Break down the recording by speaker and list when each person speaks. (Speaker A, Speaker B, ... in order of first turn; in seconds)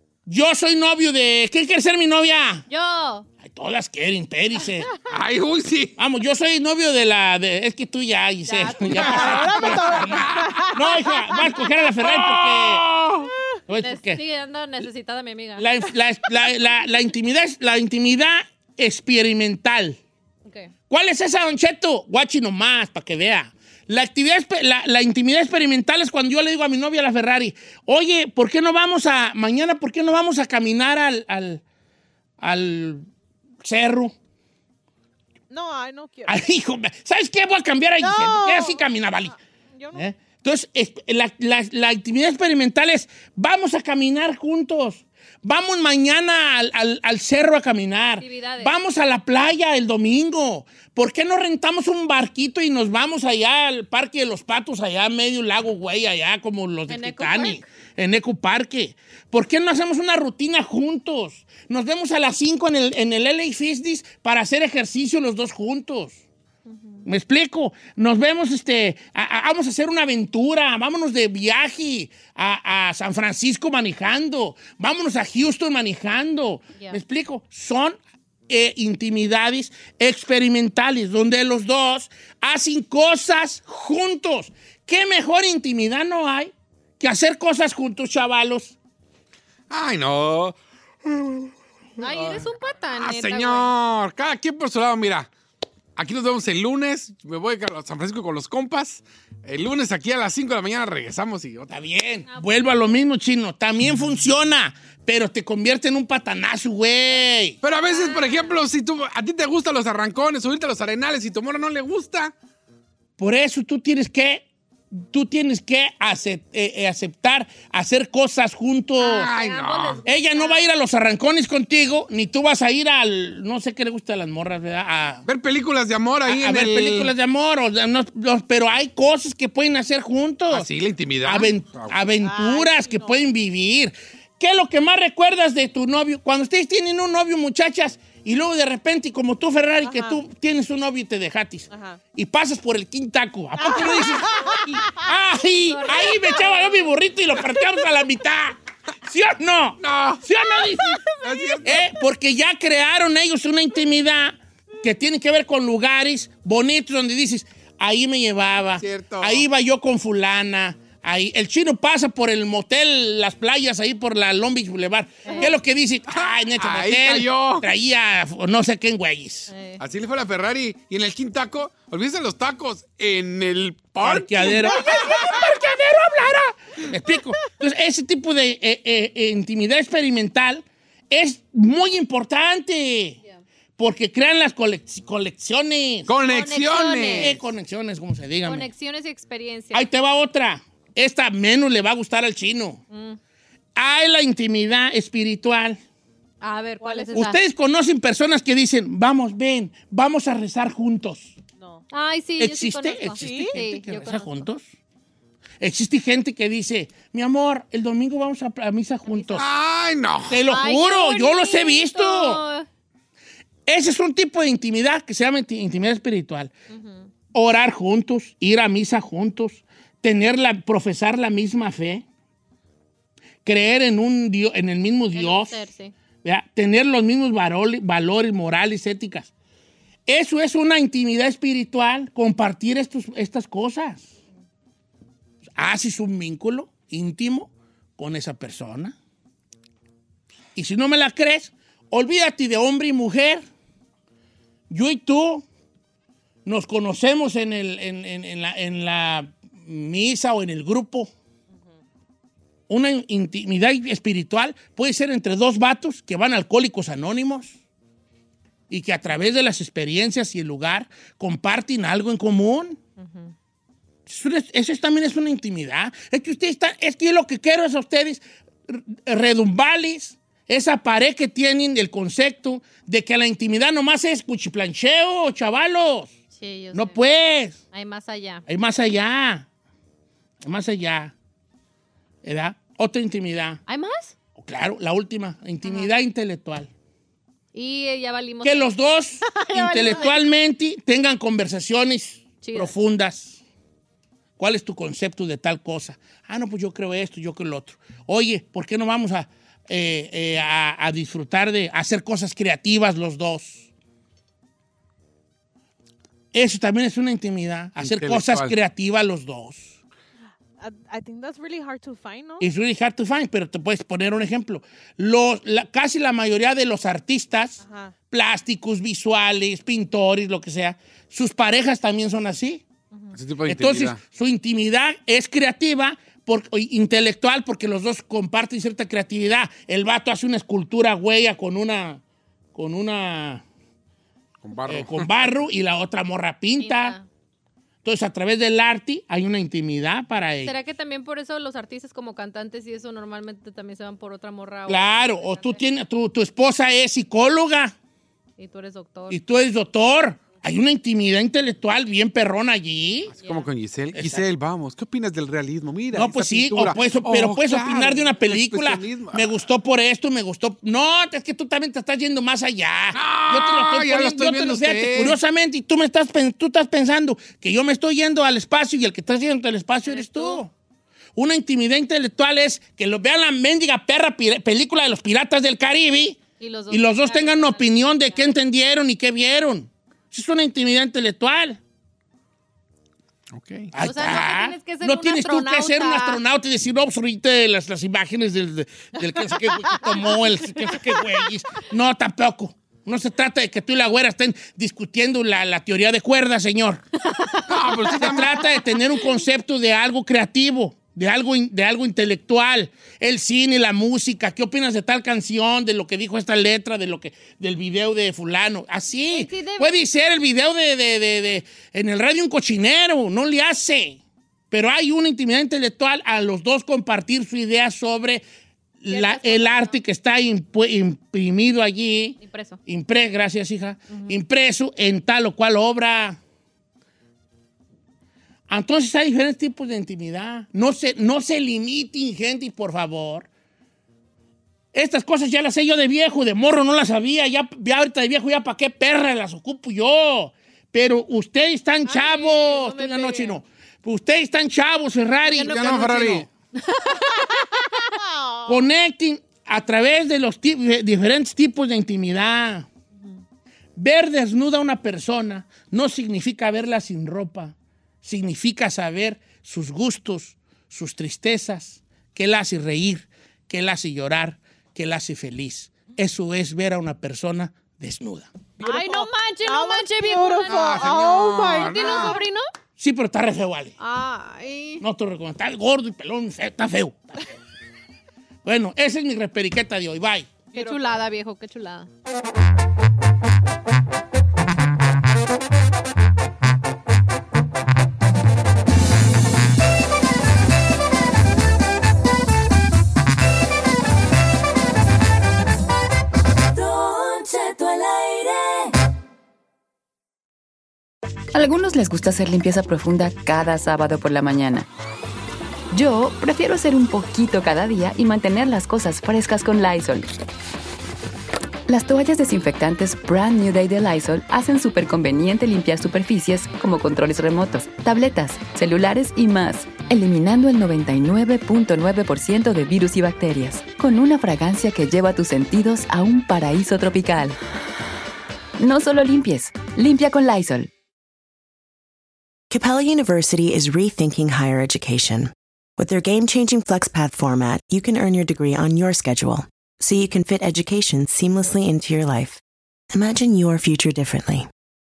Speaker A: 0.3-2.6, 3.4-4.9, 6.0-12.9, 13.7-14.2, 15.6-20.0, 20.9-31.6, 32.4-33.1, 33.6-34.1, 36.2-39.3, 39.9-66.2, 67.0-78.0, 78.5-88.7, 101.7-107.6, 113.2-119.3, 120.0-125.2, 126.2-130.7, 131.2-151.0, 151.6-169.5, 174.0-183.2, 183.8-186.1, 187.1-188.7, 189.7-192.8, 193.8-195.8, 197.1-201.4, 202.4-204.7, 205.6-209.5, 210.3-212.4, 213.7-216.5, 217.3-222.0, 223.4-225.7, 226.2-229.3, 230.1-234.1, 235.6-238.9, 240.5-243.4, 244.7-245.4, 246.4-251.1, 252.7-257.6, 258.7-262.8, 264.1-276.1, 276.7-277.6, 278.5-279.5, 280.4-281.1, 282.2-283.6, 284.4-286.7, 288.4-293.4, 294.4-303.7, 306.3-309.8, 312.4-322.6, 323.4-332.0, 332.5-333.4, 334.7-337.0, 337.8-340.5, 344.7-347.7, 349.1-353.1, 353.9-354.2, 355.9-370.5, 371.1-376.2, 376.7-381.6, 383.7-396.8, 397.9-414.0, 414.5-418.2, 418.8-426.2, 428.5-433.3, 434.7-446.3, 448.5-452.6, 453.8-468.3, 472.8-473.8, 474.8-477.2, 478.4-480.3
Speaker B: 2.7-3.2, 13.8-15.6, 48.2-48.7, 56.9-57.6, 66.7-67.0, 92.0-93.7, 102.3-102.9, 107.8-108.6, 119.1-120.7, 145.7-146.9, 150.7-151.6, 186.3-187.3, 188.4-189.9, 192.9-193.2, 196.4-197.4, 201.9-204.4, 210.5-212.7, 216.7-217.1, 225.1-225.9, 263.0-263.3, 276.3-277.0, 277.7-278.4, 283.7-284.1, 285.6-285.9, 287.5-290.3, 292.4-292.7, 336.6-337.1, 340.4-345.6, 348.4-349.2, 369.9-370.4, 376.4-378.3, 383.8-386.2, 397.0-399.2, 409.1-409.8, 418.9-419.8, 422.2-422.6, 423.9-424.1, 441.9-443.4, 445.3-445.9, 446.5-447.5, 468.6-472.5, 473.8-474.8, 480.5-481.9
Speaker C: 5.0-5.9, 8.8-10.7, 12.0-13.3, 89.7-95.3, 96.0-101.7, 107.6-112.3, 119.0-120.0, 125.2-127.1, 130.5-132.1, 149.8-150.2, 151.2-151.8, 158.8-159.4, 166.1-167.7, 169.8-175.0, 186.1-187.4, 209.4-210.4, 307.8-308.5, 323.1-324.0, 334.4-335.1, 353.1-359.3, 362.9-365.2, 383.3-383.7, 397.5-398.4, 445.4-446.2, 470.5-472.1
Speaker D: 8.4-11.5, 35.5-36.4, 38.0-40.0, 132.2-133.2, 139.8-140.2, 141.7-142.0, 143.6-145.0, 165.2-165.6, 169.5-169.8, 196.8-197.2, 201.6-201.8, 203.2-203.5, 310.6-312.4, 317.6-317.9, 448.0-448.6, 468.6-472.2, 480.5-481.0
Speaker E: 496.5-498.7
Speaker F: 501.3-504.7, 505.7-510.1, 511.7-527.4, 528.6-530.7
Speaker G: 532.5-544.5